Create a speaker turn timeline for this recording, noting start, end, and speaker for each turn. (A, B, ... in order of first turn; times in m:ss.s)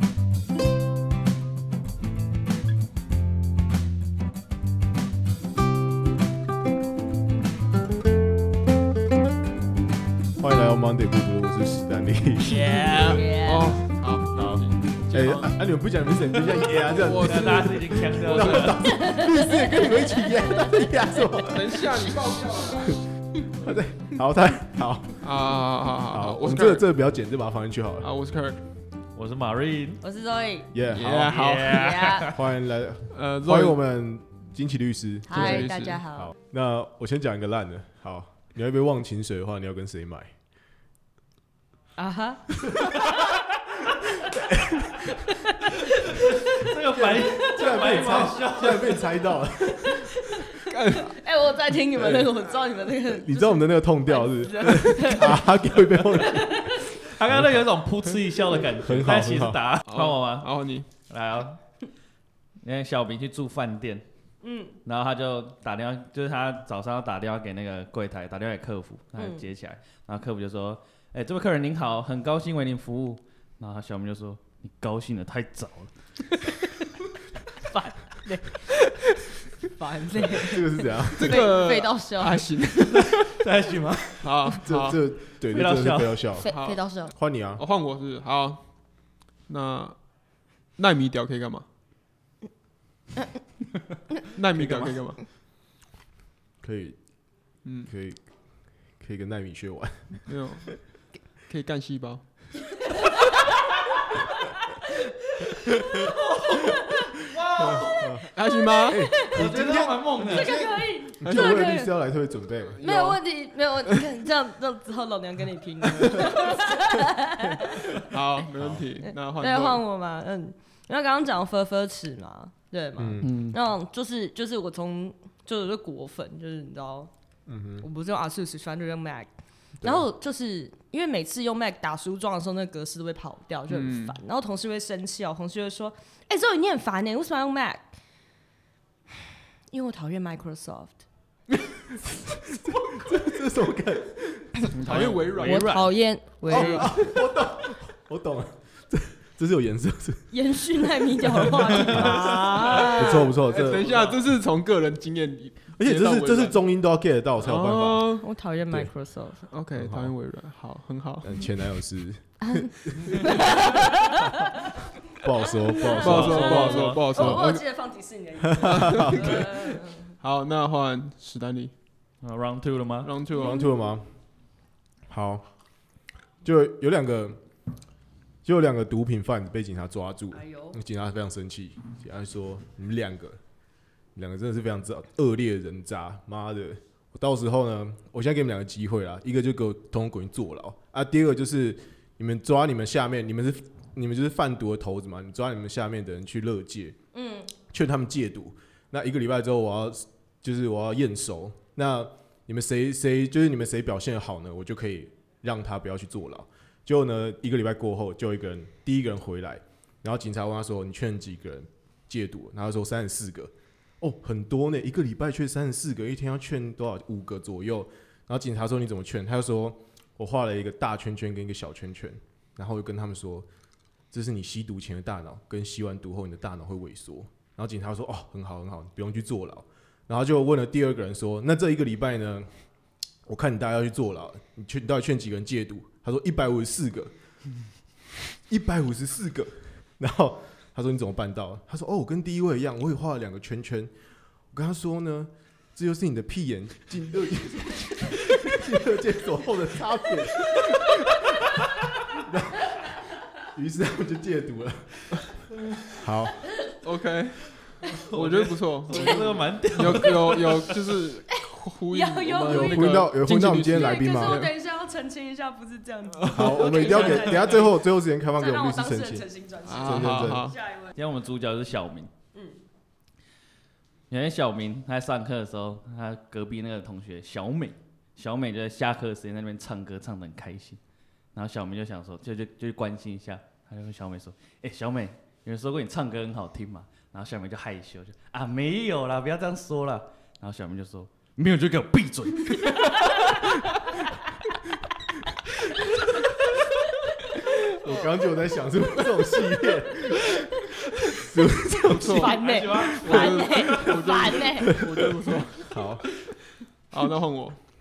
0:10.4-0:12.9 A
0:12.5-0:13.2 B
0:12.8-0:15.5 C
0:13.0-0:13.8 D
0:14.4-0:14.6 B
0:15.1-0:21.8 A
0:16.9-0:18.9 C
0:17.2-0:18.8 B
0:18.9-0:21.2 D
0:21.5-0:23.4 C
0:23.5-0:25.3 A
0:25.2-0:26.8 C
0:26.1-0:28.1 A
0:28.0-0:28.6 C
0:29.1-0:30.0 B
0:30.0-0:30.7 D
0:30.7-0:31.4 A
0:30.9-0:32.0 C
0:31.1-0:32.4 B
0:31.7-0:32.3 D
0:32.3-0:40.3 A
0:33.1-0:33.8 C
0:35.2-0:36.3 D
0:35.3-0:36.0 C
0:42.0-0:42.5 D
0:44.3-0:45.0 A
0:46.0-0:49.0 B
0:46.9-0:50.2 A
0:50.3-0:55.4 D
0:50.6-0:51.2 C
0:53.1-0:57.6 A
0:56.1-0:56.7 D
0:57.0-1:00.5 B
0:58.8-0:59.6 A
0:59.9-1:00.9 C
1:01.1-1:01.6 B
1:02.6-1:04.0 B
1:04.4-1:04.8 D
1:04.8-1:15.9 B
1:09.2-1:09.4 D
1:17.6-1:18.8 D
1:19.6-1:22.7 D
1:20.4-1:21.5 A
1:21.2-1:23.3 C
1:22.9-1:24.3 B
1:24.2-1:25.0 C
1:24.6-1:27.6 A
1:25.5-1:26.3 B
1:26.4-1:27.1 D
1:26.5-1:26.8 C
1:27.6-1:30.0 C
1:30.7-1:31.6 C
1:34.3-1:35.2 C
1:34.5-1:35.0 B
1:36.6-1:37.0 A
1:37.6-1:37.9 C
1:37.8-1:40.3 A
1:40.3-1:42.2 C
1:43.0-1:43.3 D
1:45.9-1:46.9 D
1:46.1-1:48.2 B
1:47.5-1:48.3 A
1:47.6-1:47.8 D
1:48.3-1:49.1 C
1:48.5-1:49.4 D
1:48.9-1:52.8 A
1:49.2-1:50.6 B
1:50.2-1:51.9 D
1:51.2-1:51.6 C
1:52.7-1:53.2 C
1:52.8-1:58.1 D
1:58.0-1:59.8 C
1:58.6-1:58.8 A
1:59.0-2:07.1 D
2:03.0-2:03.3 A
2:03.2-2:03.6 B
2:07.5-2:07.9 A
2:07.8-2:17.9 D
2:13.7-2:14.2 C
2:19.7-2:21.0 D
2:21.8-2:24.6 A
2:24.7-2:25.8 C
2:24.7-2:25.9 B
2:25.4-2:27.0 D
2:26.4-2:26.9 B
2:26.4-2:33.9 A
2:30.3-2:33.3 D
2:32.0-2:32.7 B
2:32.3-2:36.6 C
2:33.8-2:34.2 B
2:35.8-2:38.0 A
2:37.4-2:38.2 C
2:38.1-2:39.5 D
2:38.7-2:38.9 A
2:39.5-2:41.4 C
2:39.7-2:40.1 A
2:41.2-2:44.1 A
2:42.4-2:44.3 D
2:45.1-2:47.4 A
2:45.5-2:50.2 D
2:46.0-2:47.1 B
2:46.0-2:47.6 C
2:48.6-2:49.5 A
2:48.7-2:51.7 C
2:52.2-2:53.1 B
2:53.0-2:53.6 C
2:53.3-2:53.8 D
2:53.4-2:54.2 A
2:55.1-2:55.4 A
2:56.4-2:57.4 A
2:58.4-3:03.4 A
3:00.3-3:00.8 D
3:04.1-3:17.0 A
3:17.1-3:17.5 D
3:17.7-3:43.5 A
3:44.1-3:52.6 A
3:53.2-3:57.1 A
3:58.4-4:03.9 A
4:04.5-4:11.6 A
4:12.1-4:15.4 A
4:16.0-4:16.5 A
4:16.8-4:24.5 C
4:17.9-4:20.8 B
4:19.9-4:20.4 D
4:21.9-4:30.9 D
4:22.4-4:24.5 A
4:26.2-4:27.4 C
4:26.3-4:30.4 A
4:29.6-4:30.6 C
4:30.9-4:32.1 B
4:32.3-4:32.6 D
4:34.1-4:40.8 B
4:41.3-4:53.4 B
4:53.0-4:53.5 D
4:57.7-5:02.9 A
5:01.9-5:04.8 D
5:01.9-5:02.4 C
5:02.4-5:03.9 B
5:02.9-5:05.8 C
5:05.6-5:06.1 A
5:06.9-5:07.6 C